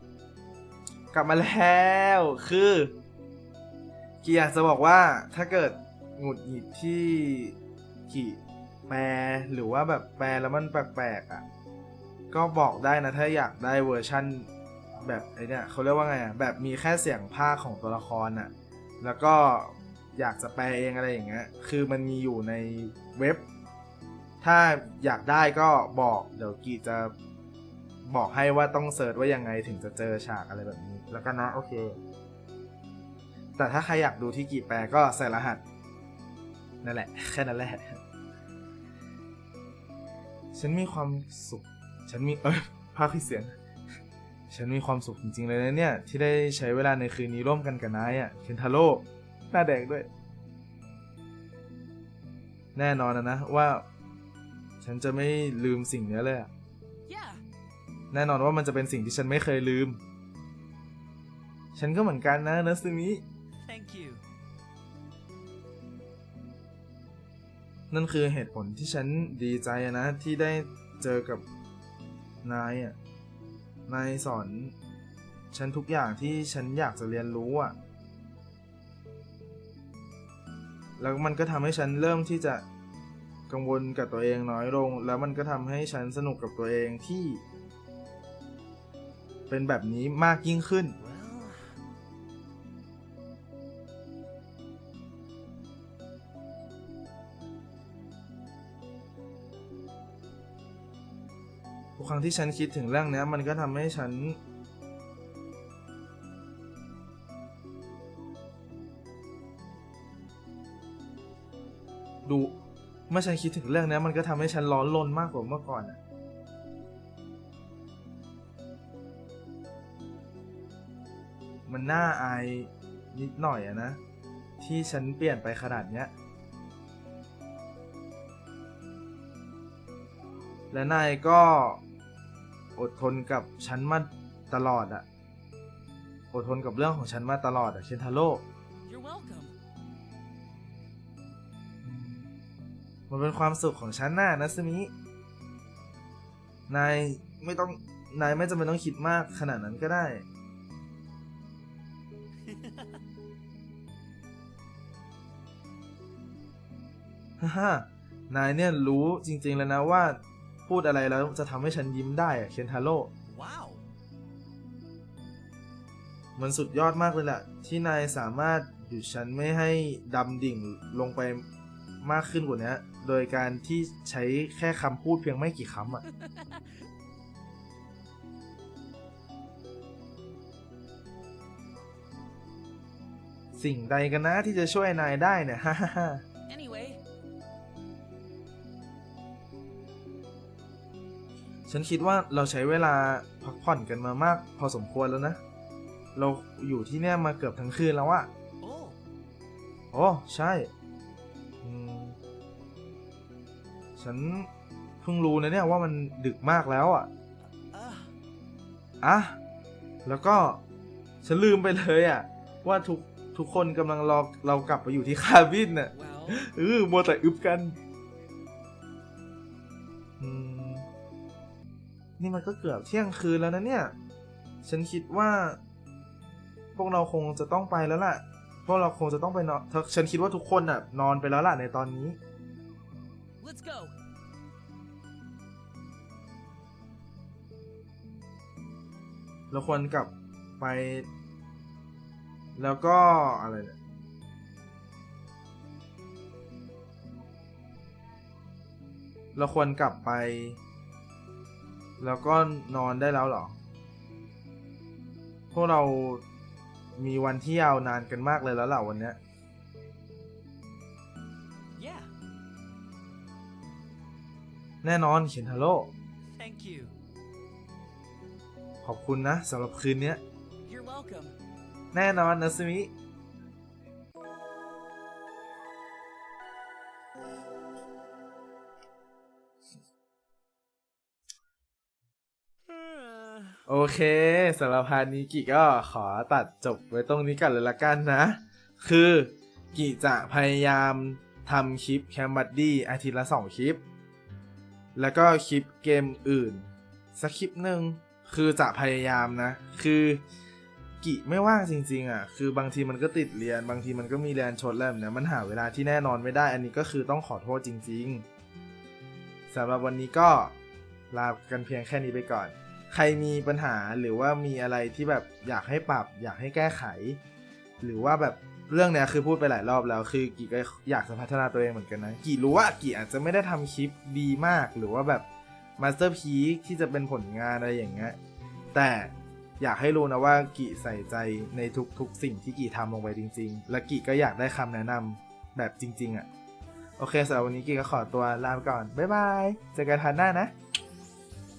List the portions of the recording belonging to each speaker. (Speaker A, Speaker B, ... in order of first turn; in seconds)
Speaker A: 1.1-3.0, 4.2-7.6, 8.1-11.4, 12.3-23.5, 24.4-27.1, 28.1-32.0, 33.6-35.6, 36.8-38.0, 40.5-43.6, 44.5-50.1, 52.8-53.9, 54.8-56.5, 58.1-60.0, 61.8-63.2, 67.9-71.4, 72.4-73.0, 73.9-74.7, 75.5-77.8, 81.0-82.7, 83.5-87.4, 89.5-91.0, 102.0-104.4, 112.2-112.6, 113.1-116.0, 121.7-124.0, 124.6-126.1, 130.7-131.8, 132.8-135.1, 136.3-138.5, 141.8-142.3, 143.1-144.9, 146.7-150.2, 157.4-163.1, 166.4-171.4, 172.0-176.0, 183.6-186.2, 191.7-195.4, 196.2-198.3, 199.9-200.7, 201.6-202.2, 204.0-204.5, 205.0-207.1, 209.0-209.4, 210.0-210.6, 211.2-217.8, 220.2-220.9, 222.2-223.9, 224.6-225.6, 226.8-232.2, 239.5-241.1, 242.6-243.8, 249.3-250.6, 252.0-253.6, 255.5-256.2, 257.0-259.2, 264.8-265.9, 268.8-270.2, 271.9-272.9, 283.7-293.8, 294.9-300.2, 301.0-308.2, 309.5-310.6, 311.1-317.2, 317.8-325.3, 325.8-328.2, 328.7-336.3, 337.0-340.5
Speaker B: 57.1-57.4, 63.7-64.2, 91.0-91.8, 152.5-153.0, 163.3-163.8, 198.6-199.0, 207.5-208.2, 261.8-262.1, 266.4-266.9, 282.7-283.6
Speaker C: 138.9-139.5, 176.2-176.7, 186.5-187.0, 215.9-216.4, 233.4-233.9, 270.7-271.4